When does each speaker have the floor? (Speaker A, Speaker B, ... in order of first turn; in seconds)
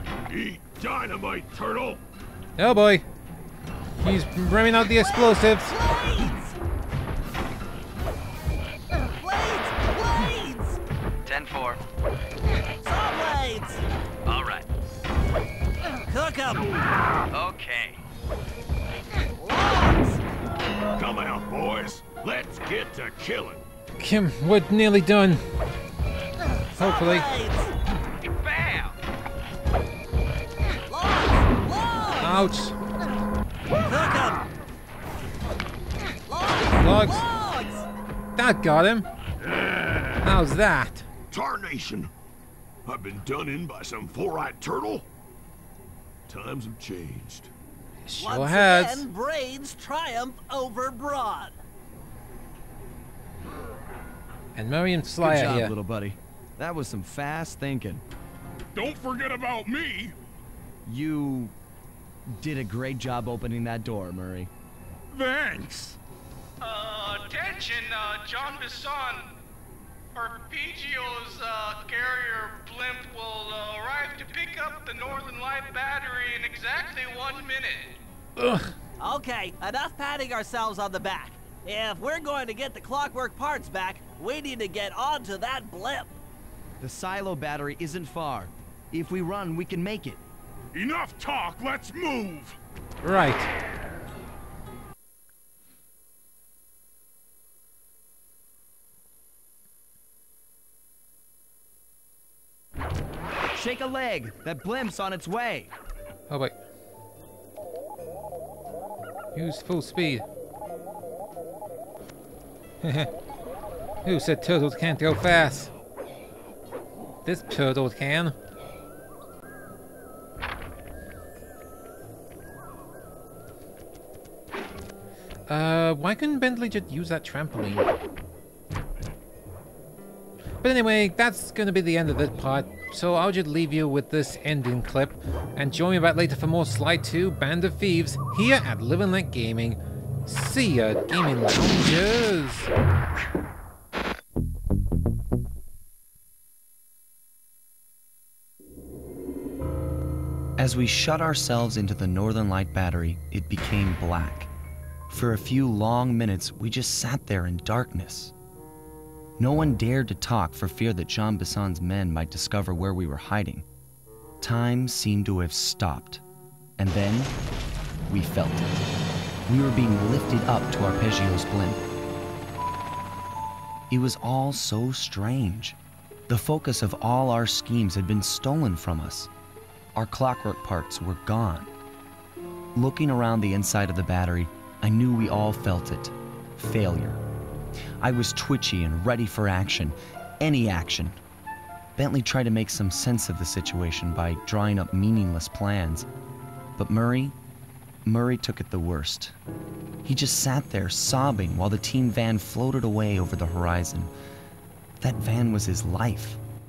Speaker A: 0.3-2.0, 20.9-23.6, 39.4-40.3, 41.3-42.1, 42.8-45.1, 46.3-47.5
Speaker B: 2.6-3.0, 4.0-5.7, 24.0-25.4, 26.8-27.2, 32.2-32.8, 36.8-37.2, 38.4-39.1, 40.2-41.0, 48.0-49.1, 54.5-55.7, 78.4-78.7, 93.0-93.5, 106.3-106.5, 109.3-110.2, 112.8-113.1, 114.0-115.7, 117.2-118.3, 125.5-127.9, 130.6-142.7
Speaker C: 4.9-6.6, 8.9-10.8, 12.8-13.8, 16.0-16.7, 19.3-20.2, 26.7-27.7, 30.9-32.5, 33.8-34.5, 36.3-37.9, 48.2-51.6, 79.0-86.2
Speaker D: 11.2-11.8, 14.2-14.7, 17.3-18.0, 28.3-29.0
Speaker E: 55.2-58.0, 60.8-61.5, 62.3-64.5, 86.8-90.2, 103.5-105.7, 150.6-154.5, 155.1-158.3, 159.4-163.7, 164.4-166.2, 166.8-167.3, 168.1-168.9, 169.5-171.8, 173.9-179.3, 179.9-181.7, 182.7-187.2, 188.0-191.2, 192.0-196.1, 196.8-197.3, 198.0-199.3, 200.0-204.1, 205.0-206.4
Speaker F: 58.7-60.1, 65.1-66.0, 90.7-92.6
Speaker G: 66.6-69.3, 70.1-78.0